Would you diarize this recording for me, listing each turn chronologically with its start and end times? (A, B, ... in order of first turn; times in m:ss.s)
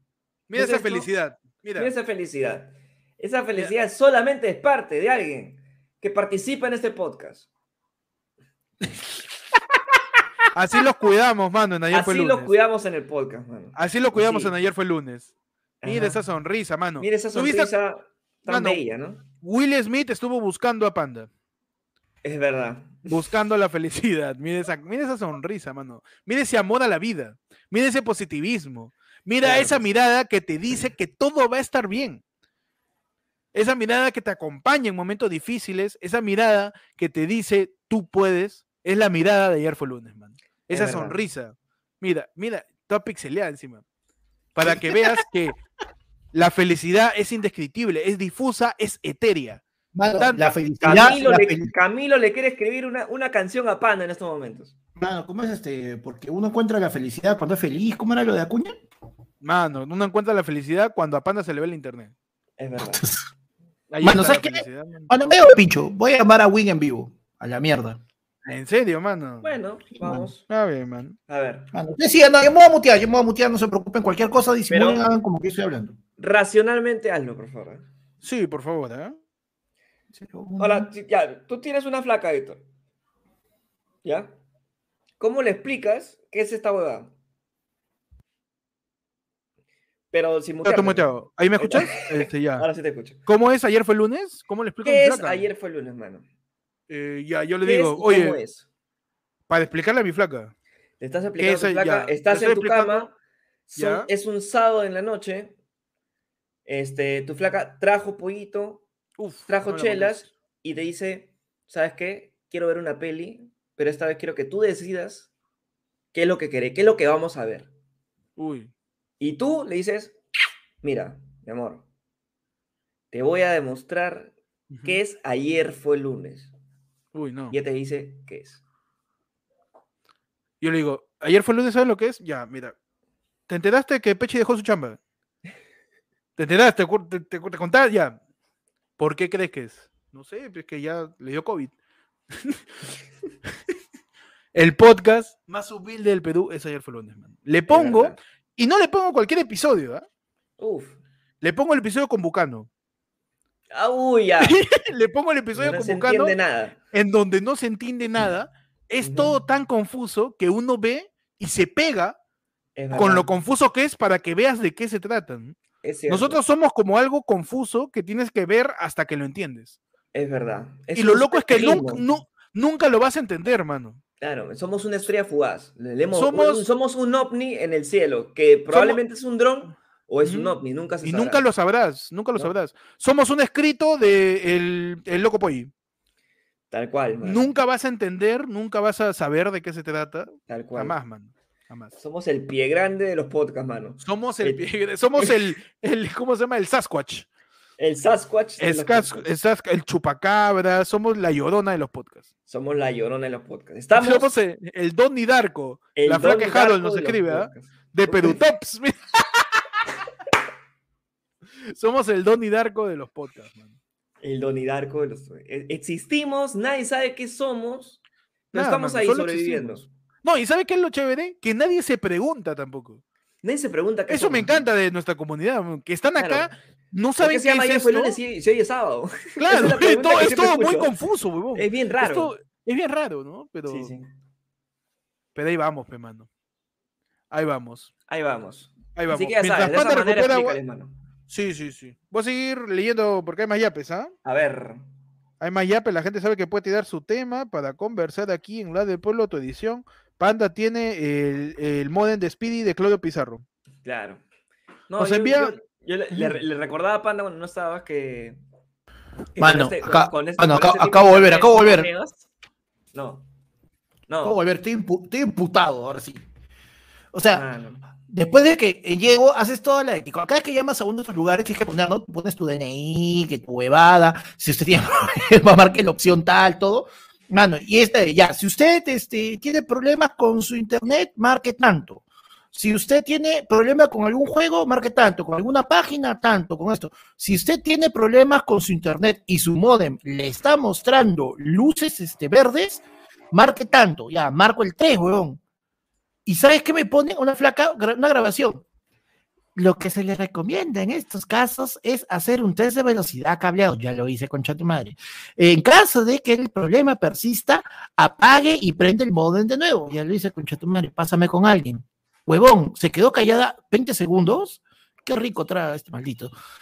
0:00.5-0:01.9 A
0:00.6-0:01.1 B
0:01.8-0:07.5 B
0:10.5-0:12.5 A
0:11.9-0:14.5 B
0:13.8-0:15.3 A
0:15.8-0:16.2 B
0:15.8-0:17.7 A
0:17.0-0:19.2 B
0:18.5-0:18.8 A
0:19.4-0:21.3 A
0:22.2-0:23.2 B
0:23.1-0:32.2 A
0:29.4-0:29.8 B
0:33.5-0:43.8 A
0:40.7-0:41.2 B
0:44.6-0:45.6 A
0:44.6-0:45.2 C
0:46.3-0:49.6 A
0:49.9-0:51.7 C
0:50.2-0:51.1 A
0:50.8-0:54.7 B
0:55.0-0:58.8 C
0:59.4-1:02.1 A
1:02.6-1:03.1 B
1:02.9-1:03.2 C
1:03.9-1:05.1 A
1:04.0-1:08.0 C
1:08.4-1:09.5 A
1:09.4-1:10.4 B
1:10.0-1:10.3 C
1:10.5-1:11.2 A
1:11.3-1:11.7 B
1:11.7-1:16.0 C
1:14.7-1:15.1 B
1:16.2-1:17.9 B
1:18.2-1:19.2 A
1:20.1-1:20.9 C
1:20.6-1:22.6 B
1:24.0-1:24.3 B
1:25.2-1:27.1 B
1:30.1-1:33.2 B
1:30.6-1:32.7 A
1:33.3-1:35.5 A
1:34.8-1:36.2 B
1:36.9-1:38.4 A
1:37.6-1:38.7 B
1:39.5-1:40.5 A
1:41.0-1:43.1 B
1:41.4-1:43.1 A
1:43.7-1:45.5 B
1:43.8-1:44.1 A
1:46.7-1:48.8 B
1:49.2-1:50.3 A
1:49.5-1:55.3 B
1:56.1-1:57.7 B
1:58.4-1:58.7 A
1:59.2-2:00.2 B
2:00.8-2:01.8 B
2:03.1-2:04.3 B
2:04.7-2:05.0 A
2:04.8-2:06.5 B
2:07.1-2:07.6 A
2:07.5-2:08.6 B
2:10.6-2:12.8 A
2:13.5-2:15.0 A
2:16.4-2:18.2 A
2:19.0-2:21.7 A
2:24.6-2:30.0 A
2:27.7-2:28.2 B
2:30.6-2:31.0 B
2:31.4-2:32.7 A
2:33.7-2:34.6 B
2:34.4-2:36.4 A
2:35.6-2:36.8 B
2:36.9-2:42.2 A
2:39.0-2:39.4 B
2:42.8-2:43.3 B
2:42.9-2:45.6 A
2:45.8-2:46.4 B
2:46.1-2:49.8 A
2:50.1-2:52.0 B
2:51.0-2:54.0 A
2:54.2-3:01.4 B
2:56.1-2:56.7 A
2:58.7-2:59.0 A
3:00.2-3:05.7 A
3:06.7-3:07.5 B
3:07.2-3:11.9 A
3:10.5-3:11.0 B
3:12.0-3:14.6 B
3:14.0-3:17.3 A
3:17.8-3:19.3 B
3:18.6-3:22.3 A
3:22.5-3:24.3 B
3:24.0-3:29.4 A
3:26.0-3:28.4 B
3:31.7-3:33.7 A
3:34.2-3:38.0 B
3:38.5-3:39.9 B
3:38.5-3:43.0 A
3:43.4-3:44.6 B
3:44.1-3:48.2 A
3:46.2-3:46.5 B
3:47.2-3:50.9 B
3:49.4-3:53.9 A
3:51.6-3:52.3 B
3:53.7-3:54.1 B
3:55.4-3:56.3 A
3:57.3-3:57.9 A
3:58.1-4:00.9 B
3:59.0-4:00.6 A
4:01.3-4:04.1 A
4:04.2-4:04.8 B
4:05.4-4:13.4 A
4:13.8-4:14.2 B
4:14.9-4:18.4 B
4:15.0-4:15.5 A
4:19.4-4:22.3 B
4:19.4-4:21.9 C
4:22.9-4:23.2 B
4:24.1-4:24.4 B
4:24.2-4:26.2 C
4:27.1-4:27.4 C
4:27.3-4:27.8 B
4:28.1-4:55.4 C
4:56.3-4:58.6 C
4:59.6-5:16.3 C